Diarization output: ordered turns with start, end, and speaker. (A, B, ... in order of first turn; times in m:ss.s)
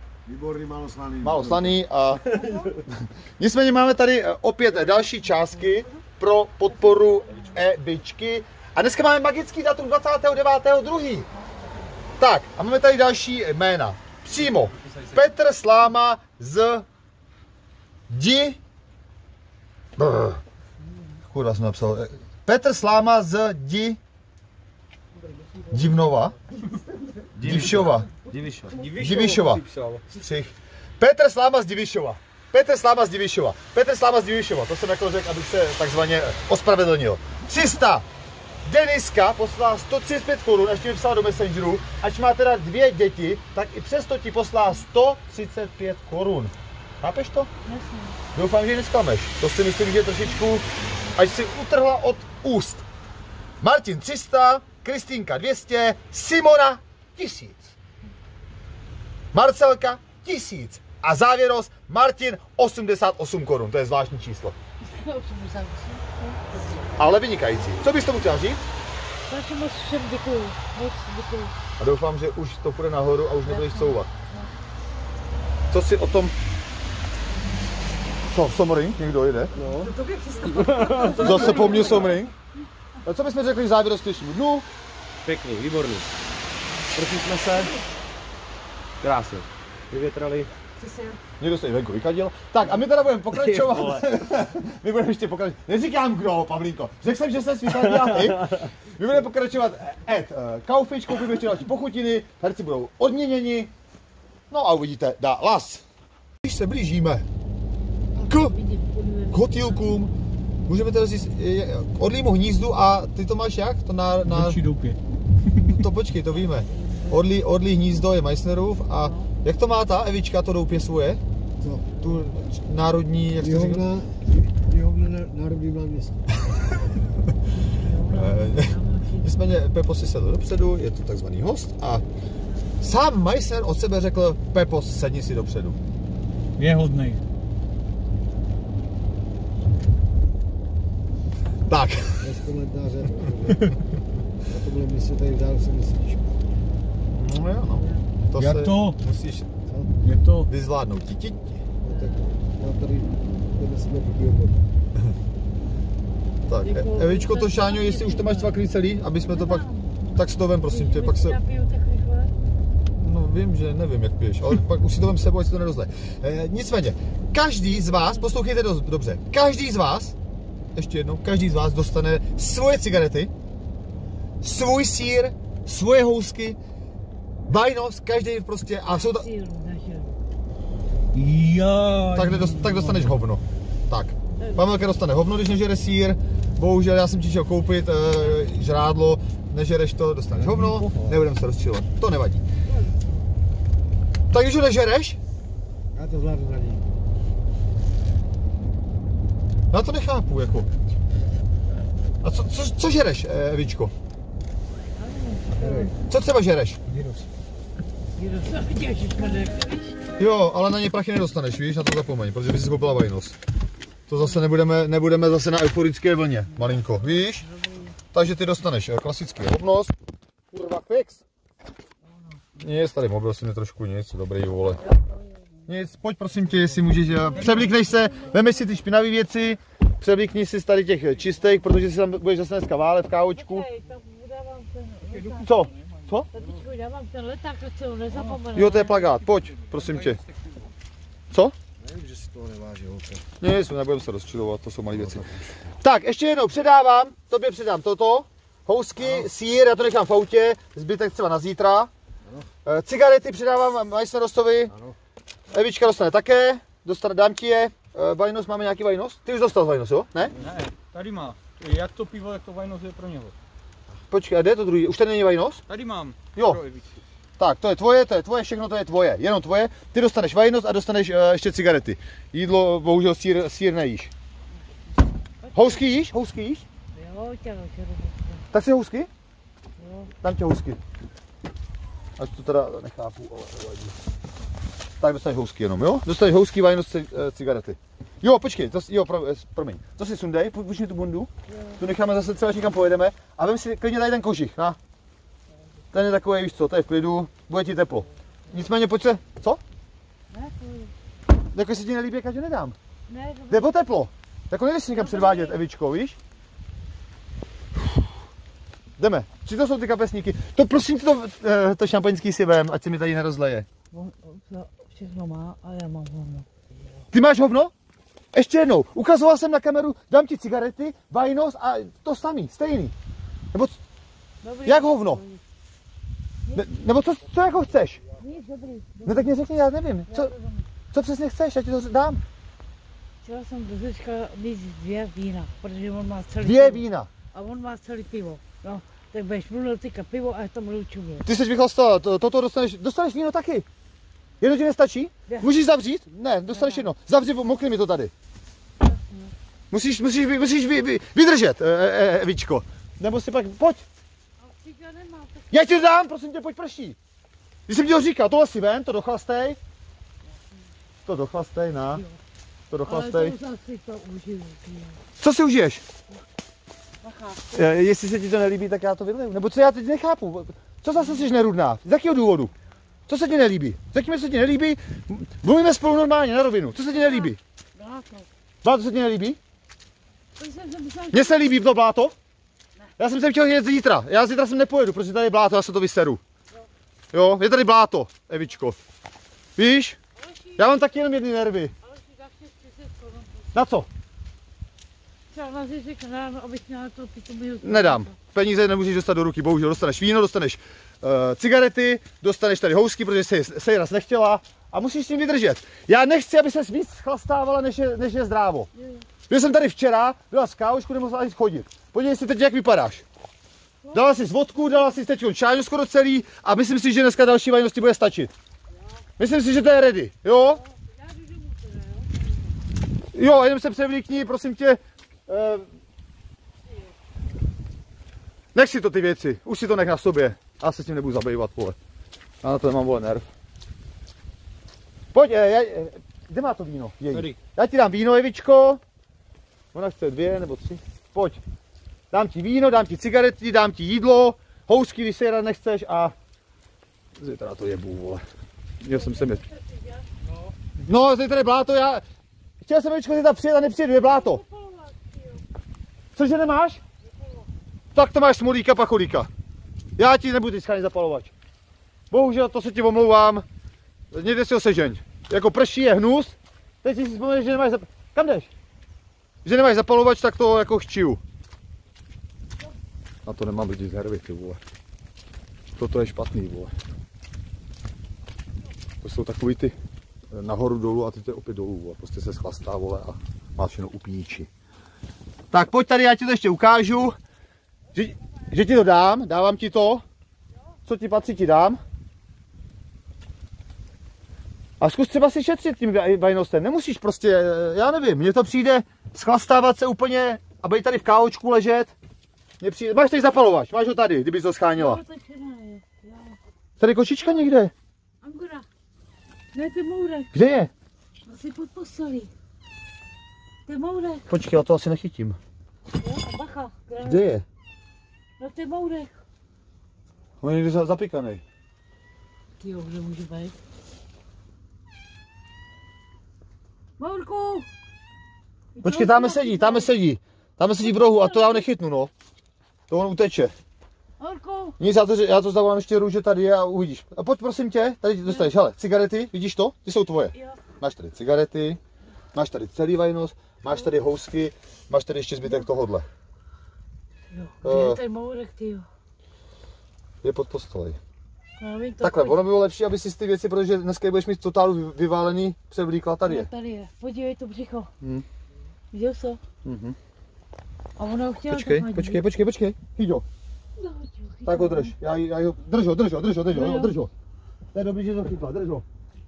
0:00.2-0:01.9 A
0:01.2-0:11.3 B
0:02.3-0:02.7 C
0:06.8-0:07.4 C
0:12.2-0:16.9 B
0:18.1-0:18.6 B
0:20.0-0:20.4 B
0:21.3-0:24.0 B
0:25.7-0:26.4 B
0:27.4-0:28.7 D
0:27.4-0:28.1 B
0:27.4-0:30.0 E
0:28.8-0:38.0 B
0:38.6-0:47.5 B
0:47.7-0:48.2 C
0:48.3-0:52.8 B
0:53.6-0:57.8 B
0:59.3-1:04.6 B
1:04.8-1:06.4 C
1:07.0-1:08.6 B
1:09.3-1:11.5 C
1:11.8-1:14.1 B
1:13.4-1:14.5 C
1:15.7-1:16.4 B
1:18.3-1:19.6 B
1:19.5-1:19.9 A
1:19.6-1:22.2 C
1:20.6-1:21.2 D
1:20.7-1:21.1 A
1:21.2-1:22.3 B
1:23.0-1:24.7 B
1:25.2-1:26.1 D
1:26.9-1:27.7 B
1:29.0-1:29.4 B
1:29.9-1:30.5 D
1:31.4-1:43.7 B
1:33.4-1:34.1 D
1:44.5-1:45.8 B
1:46.4-1:47.3 B
1:48.2-1:50.0 C
1:48.3-1:48.6 B
1:49.3-1:50.1 B
1:50.7-1:54.6 B
1:54.2-1:55.7 E
1:55.6-2:01.2 B
1:56.7-1:57.2 C
1:58.9-1:59.3 C
2:01.6-2:01.9 A
2:02.0-2:03.9 B
2:03.4-2:06.2 A
2:07.6-2:09.3 C
2:08.1-2:12.0 B
2:12.8-2:15.8 B
2:16.6-2:17.2 E
2:21.7-2:22.4 B
2:22.2-2:23.8 A
2:24.4-2:26.4 A
2:27.1-2:29.5 B
2:28.4-2:29.0 E
2:30.0-2:30.5 E
2:30.4-2:31.6 B
2:31.8-2:34.6 A
2:31.9-2:32.2 C
2:36.4-2:41.4 B
2:36.6-2:38.6 C
2:39.3-2:40.1 C
2:40.7-2:42.3 C
2:43.0-2:50.2 B
2:50.8-2:53.3 B
2:54.4-2:56.6 B
2:57.5-2:59.3 B
2:58.9-3:00.2 C
3:01.1-3:03.1 E
3:02.1-3:12.4 B
3:04.4-3:04.7 C
3:10.4-3:11.1 E
3:12.7-3:13.2 C
3:14.3-3:15.2 B
3:15.9-3:16.9 A
3:19.7-3:20.7 B
3:22.2-3:23.9 B
3:25.0-3:26.0 C
3:25.6-3:25.9 A
3:26.1-3:26.8 B
3:26.9-3:27.3 E
3:28.2-3:30.0 C
3:30.2-3:33.4 B
3:34.1-3:37.5 B
3:36.6-3:38.0 C
3:38.1-3:39.9 B
3:40.5-3:41.2 B
3:42.6-3:44.8 B
3:44.9-3:45.3 C
3:45.6-3:53.6 B
3:47.3-3:48.6 C
3:47.4-3:47.7 E
3:53.3-3:55.5 C
3:55.0-3:55.9 E
3:55.4-3:56.3 B
3:56.3-3:59.0 C
3:56.4-3:56.6 A
3:58.1-3:58.4 E
3:58.5-4:00.2 B
3:59.4-4:00.4 E
4:01.8-4:03.2 A
4:03.4-4:05.3 B
4:04.9-4:05.7 A
4:05.8-4:11.9 B
4:09.0-4:09.3 A
4:12.2-4:12.5 A
4:12.6-4:14.7 B
4:14.7-4:15.0 A
4:15.5-4:20.3 B
4:20.4-4:23.3 E
4:24.1-4:25.6 B
4:25.7-4:27.0 E
4:26.4-4:26.6 B
4:27.4-4:34.1 B
4:35.4-4:35.8 C
4:35.5-4:36.6 B
4:36.9-4:38.4 C
4:38.5-4:39.1 B
4:39.8-4:40.1 C
4:40.2-4:40.8 B
4:42.2-4:44.0 B
4:45.0-4:54.8 B
4:51.5-4:51.8 C
4:55.9-4:59.6 B
5:00.3-5:00.9 C
5:01.5-5:02.8 B
5:03.1-5:03.8 C
5:03.5-5:06.2 B
5:04.9-5:05.6 C
5:09.0-5:13.7 B
5:13.9-5:16.5 C
5:17.1-5:17.7 B
5:18.3-5:22.9 B
5:23.5-5:23.8 B
5:24.4-5:25.4 C
5:24.6-5:25.2 B
5:26.5-5:28.0 B
5:28.2-5:29.4 C
5:29.0-5:30.3 B
5:30.1-5:30.7 C
5:30.9-5:32.2 B
5:33.2-5:41.2 C
5:36.4-5:37.1 B
5:41.2-5:43.6 B
5:44.4-5:48.1 B
5:46.5-5:46.9 C
5:48.8-5:49.3 C
5:49.7-5:53.8 B
5:54.4-5:55.8 C
5:55.5-5:57.0 B
5:57.7-5:59.6 B
6:01.0-6:02.0 B
6:01.9-6:02.2 C
6:02.7-6:03.4 B
6:02.9-6:05.0 C
6:05.2-6:05.8 B
6:07.0-6:07.4 C
6:07.5-6:12.5 B
6:13.1-6:17.4 B
6:16.9-6:18.3 C
6:18.6-6:19.4 B
6:20.4-6:21.4 C
6:21.1-6:22.1 B
6:23.0-6:26.2 B
6:27.1-6:28.8 B
6:29.6-6:30.0 B
6:30.2-6:30.8 C
6:30.6-6:31.7 B
6:31.8-6:33.5 C
6:33.5-6:33.9 B
6:35.3-6:38.1 C
6:37.6-6:48.7 B
6:48.8-6:49.0 C
6:49.3-6:53.0 B
6:53.8-6:55.0 C
6:53.9-6:58.3 B
6:59.2-7:00.6 B
7:00.5-7:02.6 C
7:03.1-7:05.6 B
7:08.5-7:11.8 B
7:12.4-7:13.3 B
7:15.1-7:18.8 B
7:17.1-7:17.4 E
7:19.7-7:21.4 B
7:22.1-7:26.1 B
7:27.2-7:28.2 B
7:28.8-7:29.4 B
7:28.9-7:30.2 C
7:30.8-7:32.0 B
7:32.6-7:34.4 B
7:34.0-7:35.4 C
7:36.1-7:36.8 B
7:37.1-7:37.5 C
7:38.0-7:39.3 B
7:40.0-7:41.3 B
7:42.1-7:43.5 B
7:44.1-7:48.5 B
7:49.4-7:51.2 B
7:53.2-7:54.6 B
7:55.8-7:56.7 B
7:59.0-7:59.8 B
8:00.3-8:04.5 B
8:05.5-8:07.2 B
8:08.0-8:10.0 B
8:10.8-8:11.8 B
8:14.8-8:21.9 B
8:22.6-8:25.0 B
8:24.8-8:26.4 C
8:26.8-8:27.7 B
8:28.2-8:28.6 C
8:29.5-8:30.3 C
8:30.3-8:30.7 B
8:31.2-8:32.3 C
8:33.7-8:34.4 C
8:34.3-8:35.4 B
8:36.0-8:37.2 C
8:37.0-8:37.4 B
8:38.4-8:39.1 C
8:40.4-8:41.4 B
8:42.6-8:43.5 C
8:47.0-8:47.7 C
8:48.8-8:49.9 C
8:48.8-8:52.1 B
8:50.8-8:51.6 C
8:52.9-8:53.5 B
8:54.2-8:54.8 C
8:54.8-9:01.8 B
8:58.2-8:58.5 C
9:00.3-9:00.6 C
9:02.4-9:06.0 B
9:07.3-9:08.9 C
9:07.6-9:08.0 B
9:10.2-9:11.0 B
9:11.6-9:12.4 C
9:12.0-9:16.5 B
9:16.3-9:17.9 C
9:18.9-9:19.4 C
9:19.6-9:20.0 B
9:21.0-9:22.2 C
9:21.5-9:23.2 B
9:23.8-9:24.9 C
9:24.5-9:27.1 B
9:26.5-9:27.0 C
9:27.7-9:28.8 B